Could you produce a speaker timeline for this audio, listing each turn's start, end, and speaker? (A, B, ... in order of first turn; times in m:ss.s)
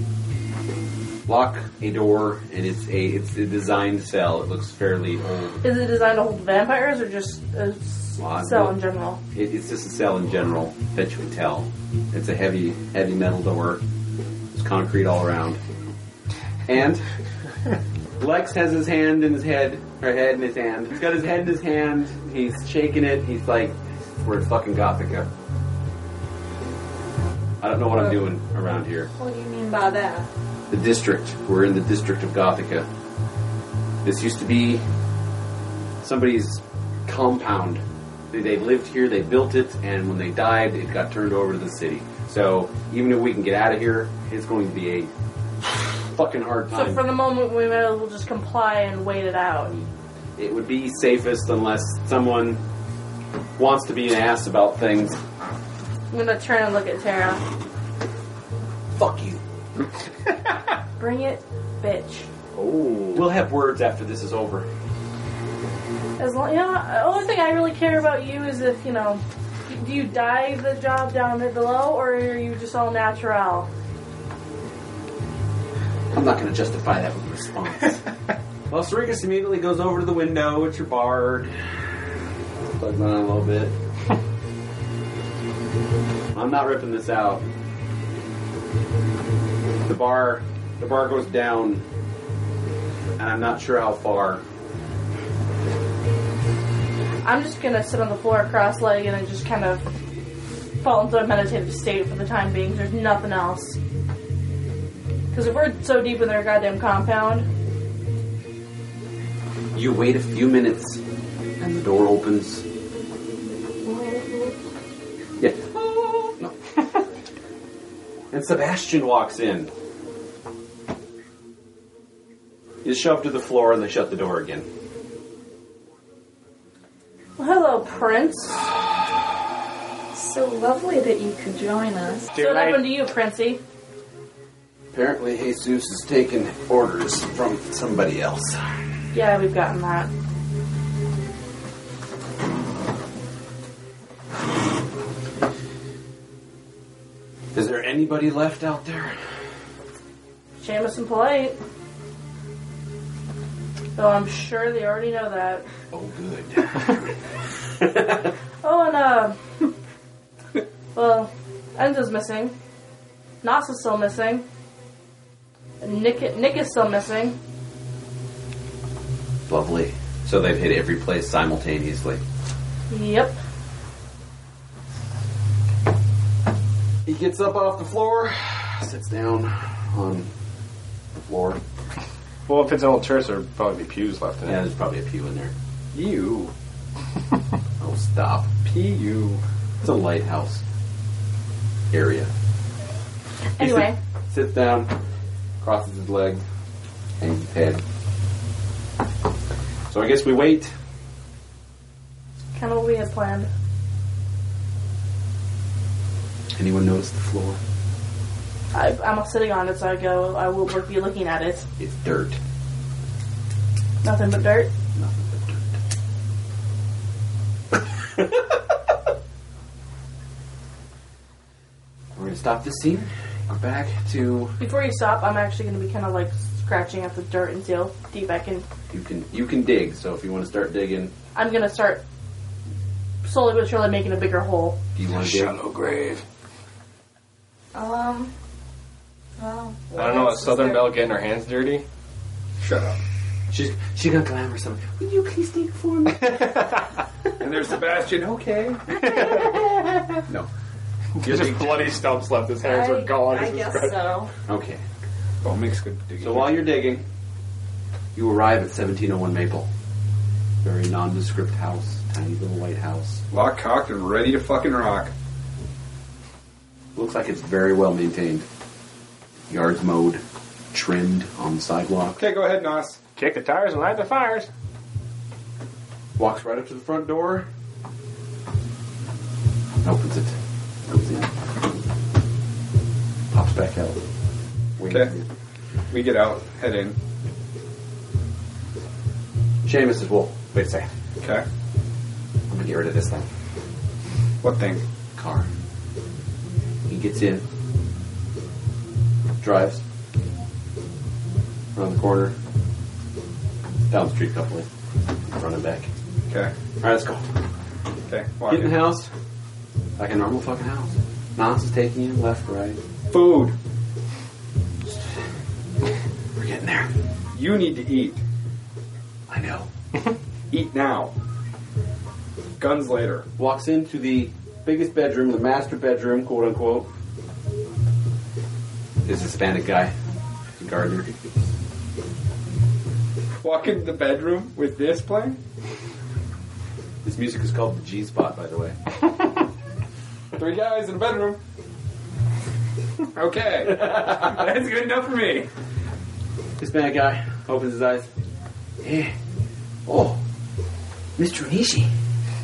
0:01.3-0:05.6 A
0:05.6-0:09.2 B
0:08.2-0:08.8 A
0:09.3-0:13.8 A
0:14.5-0:15.6 A
0:16.7-0:17.0 A
0:18.2-0:25.3 A
0:27.6-0:29.1 A
0:29.2-0:30.3 C
0:30.7-0:32.9 A
0:34.0-0:34.8 A
0:36.0-0:45.1 A
0:46.1-0:47.0 A
0:46.7-0:49.7 B
0:49.7-0:52.6 A
0:53.6-0:55.2 A
0:56.1-0:57.4 B
0:59.0-0:59.4 A
1:01.0-1:02.3 B
1:02.6-1:03.3 D
1:03.1-1:04.7 A
1:06.2-1:13.7 B
1:16.1-1:18.0 A
1:18.7-1:21.6 A
1:22.8-1:23.8 A
1:26.3-1:27.4 A
1:29.9-1:31.8 A
1:33.2-1:34.4 A
1:37.2-1:39.8 B
1:40.8-1:43.8 B
1:45.3-1:47.5 B
1:49.8-1:51.0 A
1:51.6-1:52.6 A
1:53.9-1:54.5 C
1:55.4-1:56.6 A
1:58.3-1:59.7 A
2:02.8-2:04.7 A
2:07.4-2:08.7 B
2:10.1-2:12.4 C
2:12.3-2:12.9 D
2:12.4-2:13.6 B
2:14.9-2:18.7 A
2:19.1-2:20.1 B
2:27.5-2:29.2 A
2:30.6-2:31.6 B
2:34.0-2:35.6 B
2:35.9-2:37.1 A
2:38.6-2:39.4 B
2:41.0-2:42.6 B
2:43.4-2:44.4 B
2:45.8-2:47.4 B
2:49.5-2:52.2 A
2:52.9-2:53.4 B
2:57.1-3:00.3 A
3:01.2-3:01.6 A
3:02.5-3:04.6 D
3:04.5-3:05.5 A
3:05.9-3:06.5 E
3:07.8-3:08.5 A
3:08.6-3:09.4 E
3:09.8-3:10.6 A
3:11.9-3:12.3 A
3:13.6-3:14.0 B
3:13.6-3:13.9 E
3:14.3-3:15.0 A
3:15.6-3:16.4 A
3:17.2-3:17.8 A
3:19.9-3:20.7 A
3:22.6-3:23.5 B
3:26.5-3:27.6 A
3:28.7-3:31.7 B
3:31.8-3:32.4 A
3:34.0-3:34.7 B
3:35.0-3:35.8 A
3:42.2-3:44.6 A
3:44.6-3:48.7 B
3:48.9-3:51.1 A
3:51.4-3:52.0 B
3:53.2-3:54.8 B
3:55.0-3:55.6 A
3:55.1-3:56.2 D
3:57.7-3:58.3 C
3:59.4-4:01.0 C
4:00.0-4:01.8 D
4:02.6-4:03.0 E
4:03.5-4:06.6 A
4:07.4-4:09.2 E
4:09.1-4:09.6 D
4:11.2-4:14.0 D
4:11.2-4:11.8 A
4:12.6-4:14.3 C
4:14.5-4:14.8 A
4:15.4-4:16.7 E
4:16.2-4:17.0 A
4:18.2-4:19.7 A
4:20.6-4:23.2 A
4:23.3-4:25.1 E
4:27.0-4:28.5 A
4:29.5-4:30.2 A
4:30.7-4:32.2 A
4:32.2-4:33.0 E
4:33.2-4:34.5 D
4:36.2-4:37.5 A
4:39.8-4:41.3 A
4:43.3-4:44.0 A
4:44.8-4:45.3 A
4:44.9-4:45.1 E
4:45.9-4:47.0 E
4:49.6-4:50.9 A
4:51.2-4:51.4 E
4:52.5-4:53.3 A
4:54.4-4:54.8 E
4:55.2-4:55.5 A
4:56.9-4:57.4 A
4:59.4-4:59.8 A
5:01.8-5:02.4 A
5:03.9-5:04.7 A
5:05.3-5:05.9 A
5:06.8-5:07.3 A
5:08.1-5:08.9 E
5:08.5-5:09.1 A
5:10.0-5:12.8 A
5:13.1-5:13.6 E
5:14.9-5:15.2 A
5:16.4-5:16.9 A
5:17.3-5:18.2 E
5:19.3-5:19.7 A
5:20.5-5:21.1 E
5:22.6-5:23.3 E
5:23.4-5:26.9 A
5:29.0-5:30.0 A
5:30.6-5:31.1 A
5:33.4-5:35.4 E
5:37.0-5:38.8 A
5:40.3-5:41.4 E
5:43.1-5:45.5 E
5:46.6-5:48.1 A
5:48.8-5:49.2 A
5:49.9-5:50.2 A
5:51.2-5:51.9 A